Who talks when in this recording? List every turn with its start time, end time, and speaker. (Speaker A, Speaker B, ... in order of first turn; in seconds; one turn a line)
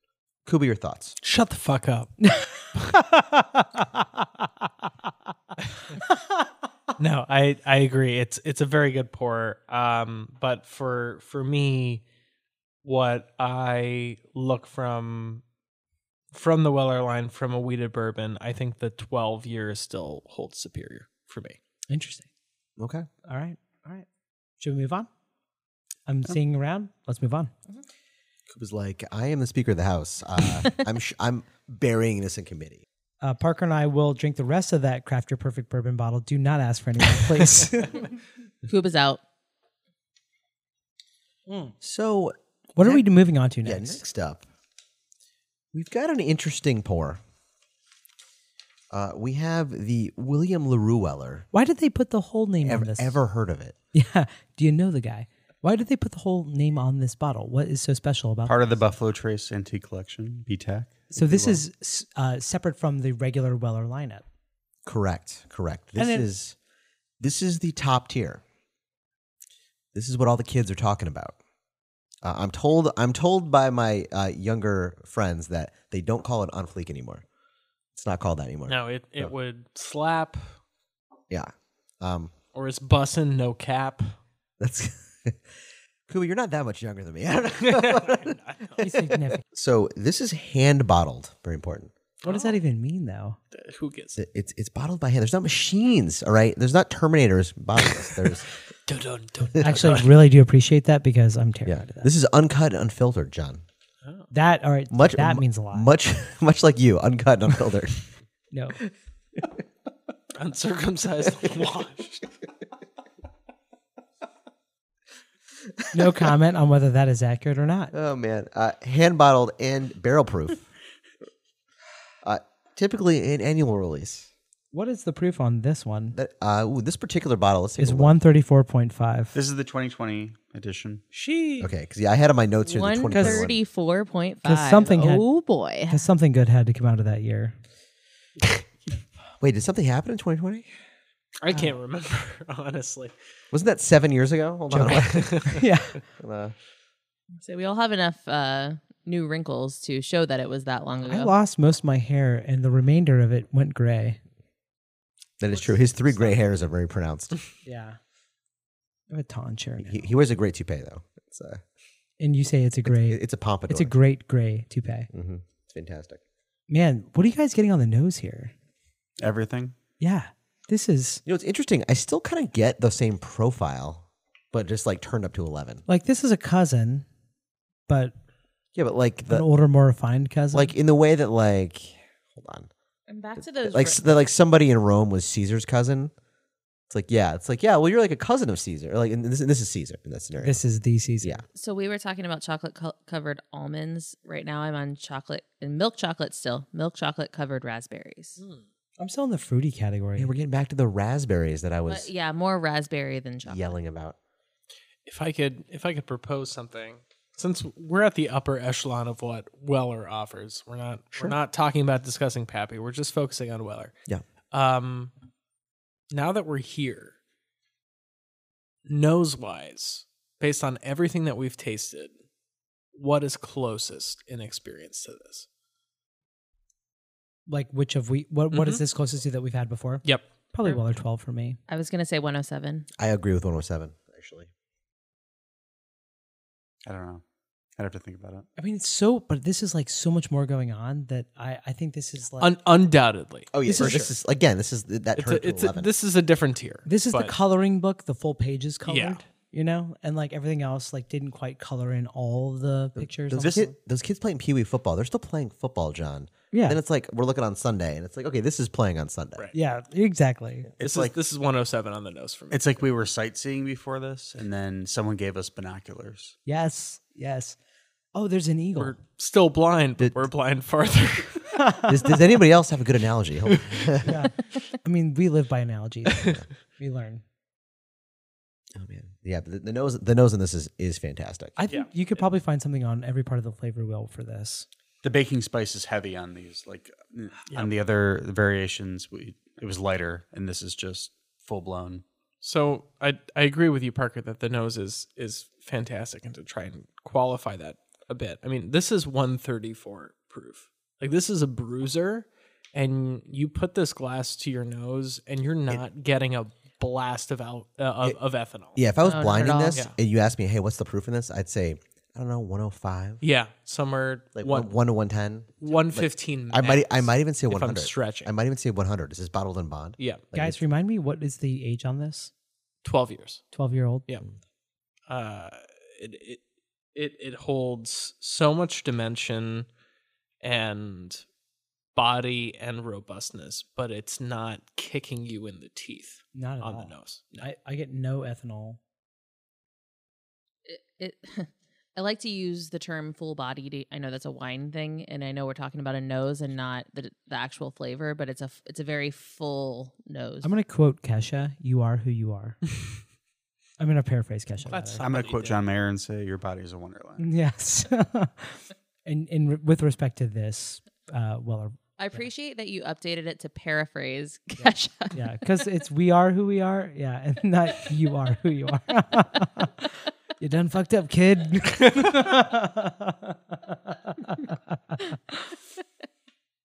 Speaker A: 0.4-1.1
Speaker B: 1.2-2.2
Speaker C: 2.2-4.0
Speaker B: 7.0-12.0
Speaker B: 12.8-15.4
Speaker B: 16.3-21.6
Speaker C: 21.9-22.3
Speaker A: 22.8-23.1
Speaker C: 23.2-24.1
Speaker C: 24.6-25.1
Speaker C: 26.1-27.5
Speaker A: 28.5-32.8
Speaker C: 33.2-38.0
Speaker D: 38.6-39.2
Speaker C: 41.5-41.7
Speaker A: 41.8-43.0
Speaker C: 42.8-44.0
Speaker A: 43.6-44.4
Speaker A: 45.7-47.2
Speaker A: 48.9-51.5
Speaker C: 51.5-53.2
Speaker A: 52.6-53.8
Speaker C: 53.9-58.7
Speaker E: 58.5-61.1
Speaker C: 61.1-64.2
Speaker A: 61.3-61.5
Speaker A: 64.8-66.5
Speaker C: 66.0-66.3
Speaker A: 67.2-68.4
Speaker A: 69.9-71.3
Speaker A: 72.2-77.2
Speaker A: 77.9-79.3
Speaker B: 78.7-80.5
Speaker A: 81.3-82.3
Speaker B: 82.5-84.2
Speaker A: 84.6-85.5
Speaker A: 86.1-88.9
Speaker B: 87.6-88.8
Speaker C: 88.8-89.4
Speaker A: 89.4-91.9
Speaker B: 92.2-92.6
Speaker C: 92.2-93.4
Speaker B: 93.5-94.2
Speaker A: 94.1-98.5
Speaker B: 97.8-100.1
Speaker A: 99.5-99.9
Speaker C: 99.6-102.1
Speaker A: 101.7-103.6
Speaker C: 104.3-105.9
Speaker A: 104.9-108.0
Speaker C: 108.5-108.8
Speaker B: 110.3-112.2
Speaker C: 115.9-117.9
Speaker A: 117.9-120.6
Speaker A: 122.2-124.3
Speaker C: 124.7-126.2
Speaker A: 126.1-128.2
Speaker C: 127.8-129.3
Speaker E: 129.3-131.0
Speaker B: 131.1-131.7
Speaker A: 131.6-133.6
Speaker D: 132.6-136.1
Speaker C: 133.1-133.4
Speaker C: 134.4-135.3
Speaker C: 135.9-137.6
Speaker A: 139.4-140.7
Speaker B: 141.4-143.1
Speaker A: 143.5-145.6
Speaker C: 144.7-146.0
Speaker B: 144.8-145.6
Speaker A: 146.2-146.6
Speaker D: 147.4-151.3
Speaker C: 151.0-154.2
Speaker A: 155.4-157.3
Speaker C: 157.6-158.0
Speaker C: 159.1-160.0
Speaker A: 159.8-161.6
Speaker C: 162.2-165.1
Speaker A: 162.8-163.9
Speaker A: 165.1-166.2
Speaker C: 166.7-168.5
Speaker E: 169.2-169.7
Speaker C: 170.0-171.2
Speaker A: 171.2-175.8
Speaker C: 175.9-177.1
Speaker C: 177.9-178.1
Speaker A: 178.7-179.4
Speaker C: 179.3-180.7
Speaker A: 180.5-182.7
Speaker D: 183.1-184.0
Speaker A: 183.4-186.1
Speaker A: 186.9-190.6
Speaker C: 190.4-191.4
Speaker D: 191.5-198.4
Speaker B: 198.4-198.6
Speaker C: 199.0-200.3
Speaker A: 200.2-202.1
Speaker D: 201.9-203.7
Speaker A: 203.4-204.2
Speaker B: 205.1-213.9
Speaker B: 214.5-215.1
Speaker B: 216.1-217.2
Speaker B: 218.8-222.1
Speaker B: 222.9-225.5
Speaker C: 227.5-231.6
Speaker B: 228.5-228.8
Speaker D: 231.7-232.9
Speaker A: 233.0-234.5
Speaker E: 236.8-237.2
Speaker E: 237.8-238.5
Speaker C: 238.6-242.5
Speaker B: 242.4-244.1
Speaker A: 243.5-245.9
Speaker C: 243.6-244.1
Speaker B: 245.2-247.3
Speaker C: 246.8-253.7
Speaker B: 248.8-249.2
Speaker A: 252.9-259.5
Speaker C: 256.5-256.8
Speaker C: 259.5-260.7
Speaker A: 260.8-261.1
Speaker B: 260.8-262.9
Speaker E: 260.8-261.1
Speaker E: 262.5-266.4
Speaker C: 266.4-267.6
Speaker C: 268.1-268.9
Speaker B: 268.8-271.7
Speaker C: 271.6-271.9
Speaker A: 271.9-274.2
Speaker B: 273.5-273.9
Speaker C: 274.0-277.2
Speaker B: 276.1-276.4
Speaker A: 278.7-281.5
Speaker C: 281.6-284.6
Speaker E: 285.0-292.0
Speaker B: 292.4-308.9
Speaker A: 308.7-313.2
Speaker D: 309.0-309.8
Speaker B: 313.2-314.7
Speaker A: 314.3-320.6
Speaker B: 315.6-318.3
Speaker C: 320.3-322.3
Speaker B: 322.8-323.4
Speaker C: 323.5-324.1
Speaker B: 325.1-326.4
Speaker B: 326.9-329.7
Speaker B: 330.4-331.2
Speaker B: 331.9-337.3
Speaker C: 336.3-338.8
Speaker D: 340.6-350.5
Speaker C: 350.4-352.6
Speaker C: 353.8-355.1
Speaker B: 354.6-355.6
Speaker E: 355.0-357.2
Speaker C: 357.2-362.2
Speaker D: 362.0-365.2
Speaker C: 365.1-375.5